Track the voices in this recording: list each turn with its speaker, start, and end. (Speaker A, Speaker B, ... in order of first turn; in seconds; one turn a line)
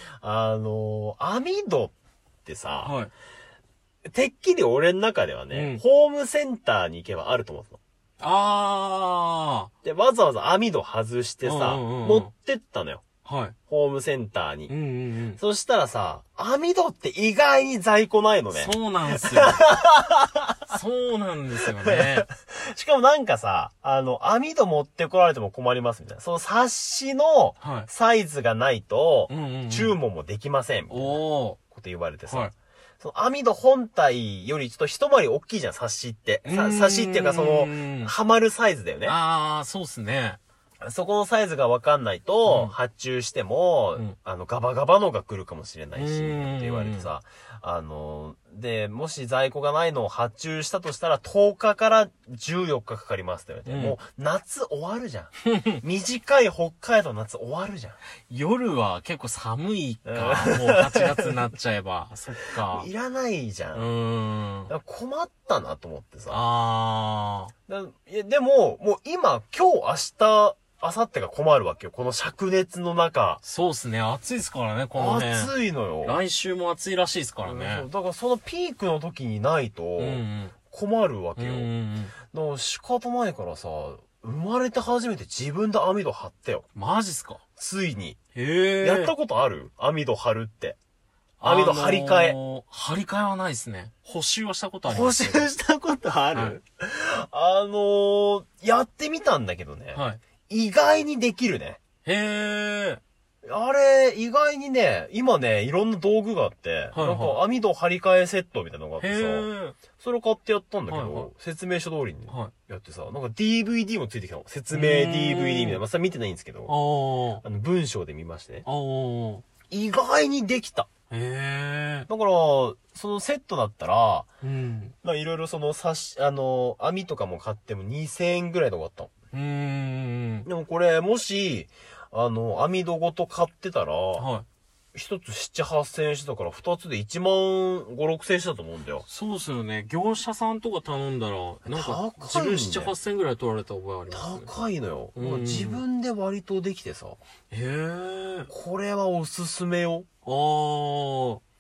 Speaker A: 0.2-1.9
Speaker A: 2.4-2.9
Speaker B: 2.8-3.1
Speaker A: 4.0-7.8
Speaker B: 5.5-5.8
Speaker B: 8.2-9.7
Speaker A: 9.8-13.0
Speaker B: 11.4-12.3
Speaker B: 13.2-13.5
Speaker A: 13.7-14.7
Speaker B: 14.7-15.4
Speaker A: 15.4-20.7
Speaker B: 18.5-19.6
Speaker B: 20.7-22.2
Speaker A: 21.8-39.1
Speaker B: 27.6-27.9
Speaker B: 29.3-29.9
Speaker B: 30.9-31.6
Speaker B: 36.4-38.1
Speaker B: 39.0-40.4
Speaker A: 40.8-58.0
Speaker B: 42.5-42.7
Speaker B: 45.9-47.1
Speaker B: 53.7-54.0
Speaker B: 55.4-55.8
Speaker B: 58.3-62.9
Speaker A: 60.0-61.3
Speaker A: 62.5-63.9
Speaker B: 63.7-64.7
Speaker A: 64.7-66.4
Speaker B: 66.3-67.5
Speaker A: 67.7-73.4
Speaker B: 73.4-75.5
Speaker A: 75.0-76.2
Speaker B: 76.0-77.9
Speaker A: 77.4-81.7
Speaker B: 80.0-80.5
Speaker B: 81.4-82.1
Speaker A: 82.3-86.7
Speaker B: 86.7-87.4
Speaker A: 87.6-88.2
Speaker B: 88.3-89.1
Speaker A: 88.8-90.8
Speaker B: 91.4-95.5
Speaker A: 91.4-92.3
Speaker A: 94.9-101.8
Speaker B: 99.9-100.2
Speaker B: 102.0-103.0
Speaker A: 103.4-116.7
Speaker B: 106.9-107.3
Speaker B: 109.0-109.8
Speaker B: 110.9-111.3
Speaker B: 114.7-115.8
Speaker B: 116.7-117.4
Speaker A: 117.4-118.7
Speaker B: 118.6-119.4
Speaker A: 119.7-120.9
Speaker B: 121.1-122.1
Speaker A: 122.1-124.3
Speaker B: 124.4-124.9
Speaker A: 125.0-129.1
Speaker B: 129.3-130.5
Speaker A: 130.4-134.3
Speaker B: 134.2-134.4
Speaker A: 134.9-139.1
Speaker B: 139.0-144.5
Speaker A: 141.7-142.9
Speaker A: 144.1-147.2
Speaker B: 145.1-145.8
Speaker B: 147.5-148.5
Speaker A: 148.5-150.1
Speaker B: 150.2-151.4